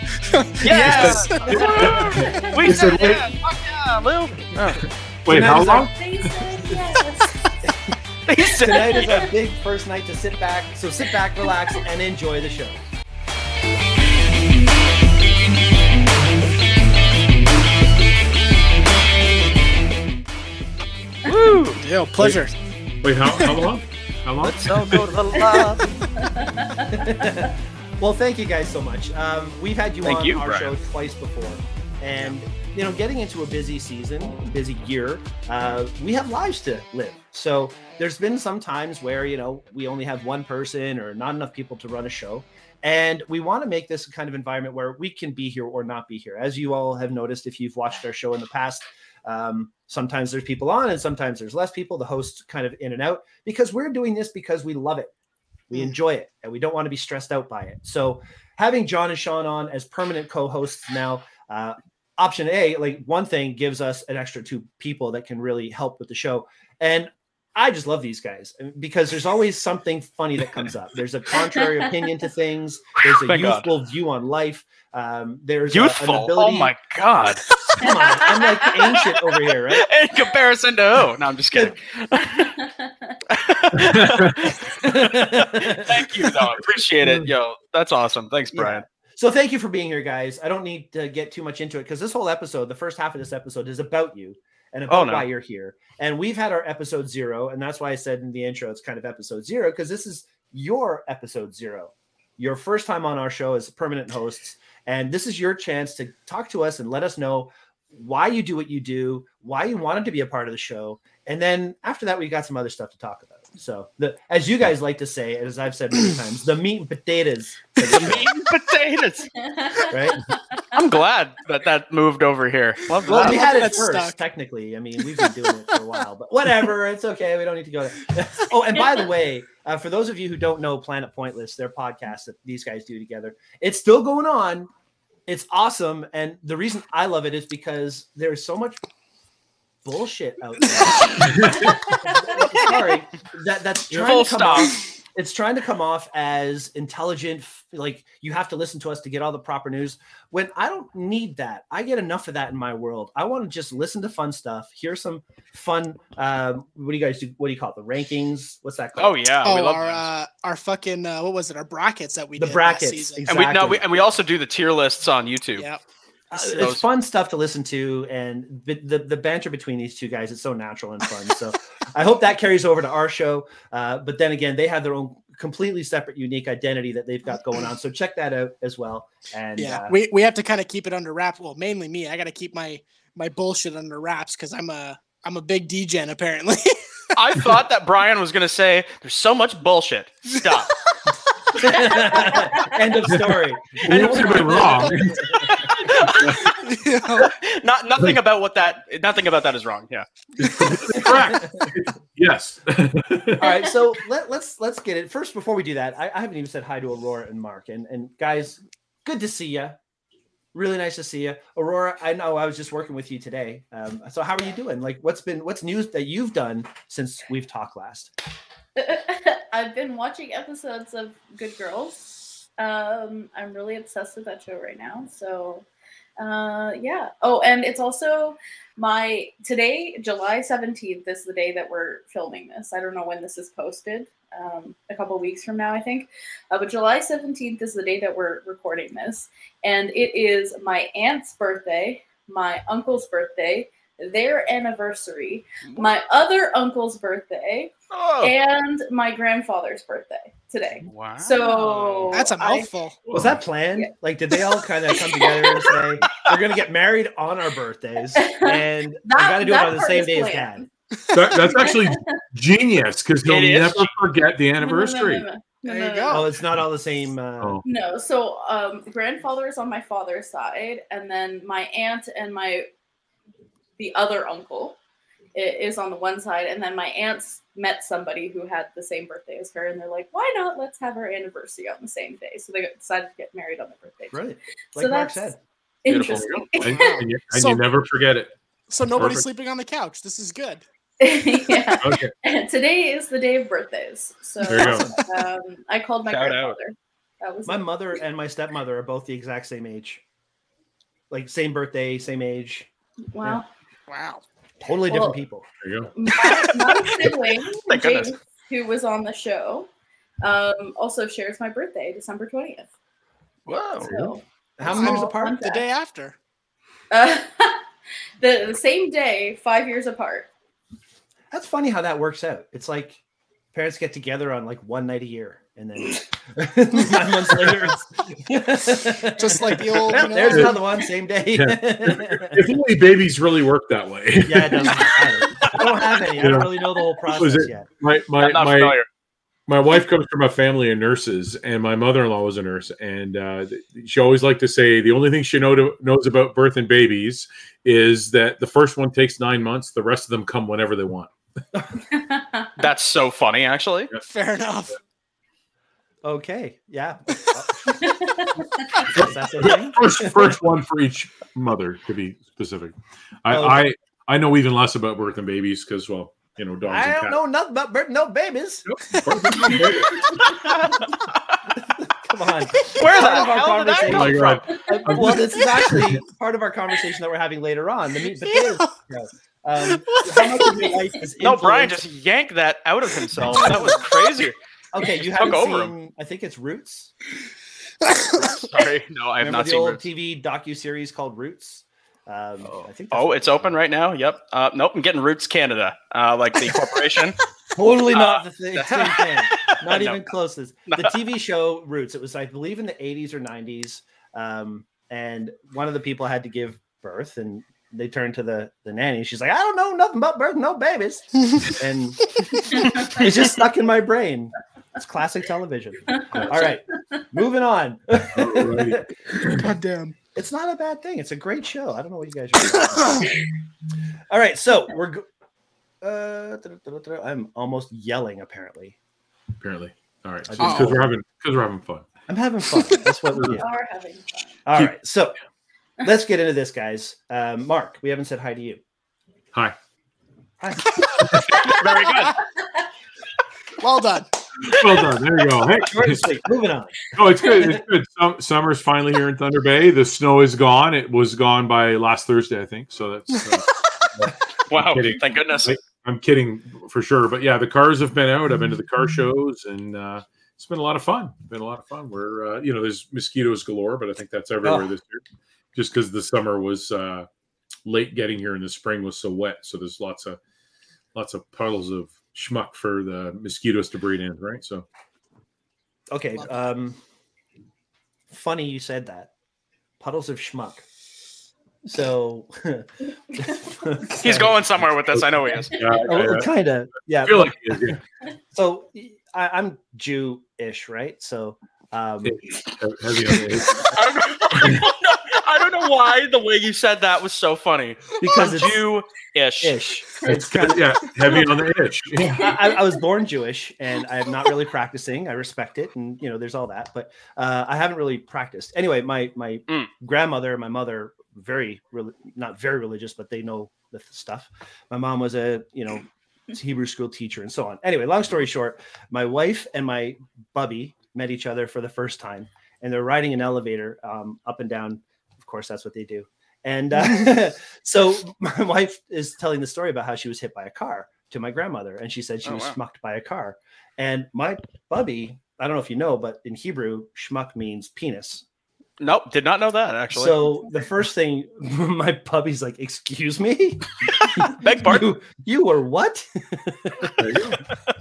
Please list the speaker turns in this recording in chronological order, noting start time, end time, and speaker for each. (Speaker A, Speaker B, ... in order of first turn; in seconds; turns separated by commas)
Speaker A: 0.2-2.4, Speaker B: 0.6-4.9, Speaker C: 0.7-2.1, Speaker D: 0.8-3.2, Speaker E: 1.3-3.2, Speaker C: 2.6-3.2, Speaker D: 5.3-6.5, Speaker C: 5.3-5.9, Speaker E: 5.5-7.5, Speaker B: 8.3-9.3, Speaker C: 8.5-12.8, Speaker B: 21.3-21.8, Speaker A: 21.7-22.5, Speaker D: 23.0-25.1, Speaker A: 23.3-23.6, Speaker B: 24.4-25.9, Speaker C: 24.7-25.9, Speaker E: 26.2-27.4, Speaker C: 26.9-55.1, Speaker B: 30.0-30.7, Speaker C: 55.7-76.7, Speaker B: 73.0-73.7, Speaker B: 75.7-77.5, Speaker C: 77.7-79.9, Speaker E: 77.8-78.8, Speaker B: 79.7-82.5, Speaker E: 82.2-83.2, Speaker B: 83.3-88.8, Speaker D: 83.9-84.5, Speaker C: 84.8-86.4, Speaker D: 87.0-87.3, Speaker C: 88.5-118.3, Speaker B: 94.9-95.2, Speaker B: 117.8-119.3, Speaker E: 119.3-120.8, Speaker C: 119.9-120.2, Speaker B: 120.7-123.6, Speaker A: 123.0-124.2, Speaker C: 123.1-134.7, Speaker C: 135.3-138.8, Speaker C: 139.8-159.2, Speaker D: 141.3-141.7, Speaker E: 141.7-142.4, Speaker B: 143.9-144.7, Speaker B: 159.0-160.0, Speaker A: 159.4-163.2, Speaker C: 162.4-163.8, Speaker B: 163.3-165.7, Speaker C: 166.3-179.9, Speaker B: 166.3-166.8, Speaker A: 179.6-187.2, Speaker B: 187.2-190.8, Speaker C: 191.6-195.5, Speaker E: 191.8-192.7, Speaker D: 193.8-195.3, Speaker B: 193.8-196.6, Speaker D: 196.0-196.5, Speaker A: 196.5-197.3, Speaker B: 197.1-200.1, Speaker D: 200.4-203.5, Speaker C: 200.9-201.7, Speaker C: 203.4-209.8, Speaker C: 210.5-218.1, Speaker E: 218.8-225.7, Speaker E: 226.2-252.7, Speaker B: 247.9-248.3, Speaker B: 250.9-252.3, Speaker A: 252.1-253.0, Speaker D: 253.1-253.4, Speaker C: 253.1-260.6, Speaker E: 253.8-255.8, Speaker E: 258.1-260.7, Speaker A: 261.1-261.5, Speaker D: 261.1-265.2, Speaker E: 261.3-262.2, Speaker B: 263.2-263.9, Speaker E: 264.6-266.3, Speaker A: 265.7-266.3, Speaker C: 266.1-267.6, Speaker E: 267.6-272.7, Speaker E: 273.8-274.8, Speaker E: 275.3-284.2, Speaker C: 284.1-285.4, Speaker E: 284.8-285.3, Speaker E: 285.8-287.0, Speaker B: 285.9-286.5, Speaker D: 286.0-288.3, Speaker A: 286.7-287.6, Speaker A: 288.7-290.6, Speaker D: 288.9-289.3, Speaker E: 291.0-297.6, Speaker D: 291.8-292.1, Speaker D: 294.5-294.9, Speaker A: 294.6-295.0, Speaker B: 296.1-296.6, Speaker C: 297.5-300.0, Speaker C: 301.1-302.7, Speaker E: 303.1-303.5, Speaker A: 303.9-304.2, Speaker C: 304.6-305.5, Speaker E: 304.9-305.2, Speaker D: 305.6-305.9, Speaker E: 305.9-309.7, Speaker B: 306.1-308.1, Speaker E: 310.2-312.7, Speaker B: 313.5-313.9, Speaker E: 313.8-315.6, Speaker D: 313.9-314.2, Speaker C: 314.6-315.4, Speaker A: 314.7-316.2, Speaker E: 316.9-317.6, Speaker E: 318.2-320.3, Speaker C: 321.3-323.0, Speaker C: 323.5-332.5, Speaker D: 327.3-327.7, Speaker A: 329.1-330.6, Speaker D: 330.3-330.6, Speaker D: 331.3-334.9, Speaker C: 334.3-337.7, Speaker B: 334.8-335.9, Speaker D: 336.2-336.5, Speaker D: 337.2-338.8, Speaker B: 338.2-338.9, Speaker D: 339.5-351.1, Speaker E: 351.9-352.5, Speaker B: 352.6-353.9, Speaker A: 354.1-354.8, Speaker C: 356.0-357.7, Speaker E: 357.7-358.9, Speaker C: 358.8-360.3, Speaker D: 358.9-367.2, Speaker C: 363.3-363.6, Speaker C: 366.7-369.7, Speaker D: 368.7-370.5, Speaker B: 370.2-371.4, Speaker C: 371.6-381.9, Speaker B: 372.8-374.5, Speaker D: 373.9-376.0, Speaker A: 375.3-375.7, Speaker A: 378.1-378.7, Speaker A: 379.6-380.7, Speaker B: 381.2-384.4, Speaker A: 383.2-383.9, Speaker C: 384.7-386.9, Speaker B: 385.1-385.7, Speaker A: 387.8-388.5, Speaker B: 388.1-389.8, Speaker C: 389.2-393.6, Speaker B: 392.4-397.2, Speaker C: 397.6-418.9, Speaker B: 397.9-400.1, Speaker B: 400.7-401.0, Speaker E: 412.5-413.1, Speaker E: 416.0-416.6, Speaker D: 418.1-419.5, Speaker A: 419.3-420.0, Speaker C: 420.1-423.1, Speaker A: 422.5-423.1, Speaker C: 424.1-425.1, Speaker C: 425.8-428.8, Speaker D: 429.4-431.9, Speaker C: 430.3-430.9, Speaker A: 430.4-430.8, Speaker C: 432.1-433.5, Speaker A: 432.6-432.9, Speaker D: 433.1-433.4, Speaker E: 433.3-434.4, Speaker C: 434.5-435.2, Speaker C: 435.8-438.6, Speaker C: 440.4-441.3, Speaker D: 441.0-441.5, Speaker B: 441.3-442.2, Speaker E: 442.2-442.7, Speaker A: 443.6-444.1, Speaker D: 444.4-446.2, Speaker B: 444.5-445.0, Speaker C: 445.7-446.8, Speaker D: 446.9-465.0, Speaker B: 454.5-455.5, Speaker C: 464.4-464.7, Speaker D: 465.6-467.1, Speaker D: 467.6-470.2, Speaker D: 470.9-474.7, Speaker C: 475.9-476.8, Speaker C: 478.1-479.1, Speaker C: 479.8-480.6, Speaker C: 481.6-484.3, Speaker B: 484.0-485.6, Speaker D: 484.1-484.3, Speaker D: 484.9-486.3, Speaker C: 485.8-487.8, Speaker D: 487.0-487.8, Speaker C: 488.3-492.2, Speaker D: 492.1-493.8, Speaker B: 493.5-499.6, Speaker D: 494.4-494.6, Speaker C: 498.0-498.6, Speaker C: 499.4-500.8, Speaker D: 500.1-502.4, Speaker C: 502.1-538.2, Speaker B: 532.2-532.6, Speaker B: 538.8-540.2, Speaker C: 539.9-547.0, Speaker B: 544.0-544.9, Speaker D: 547.0-547.4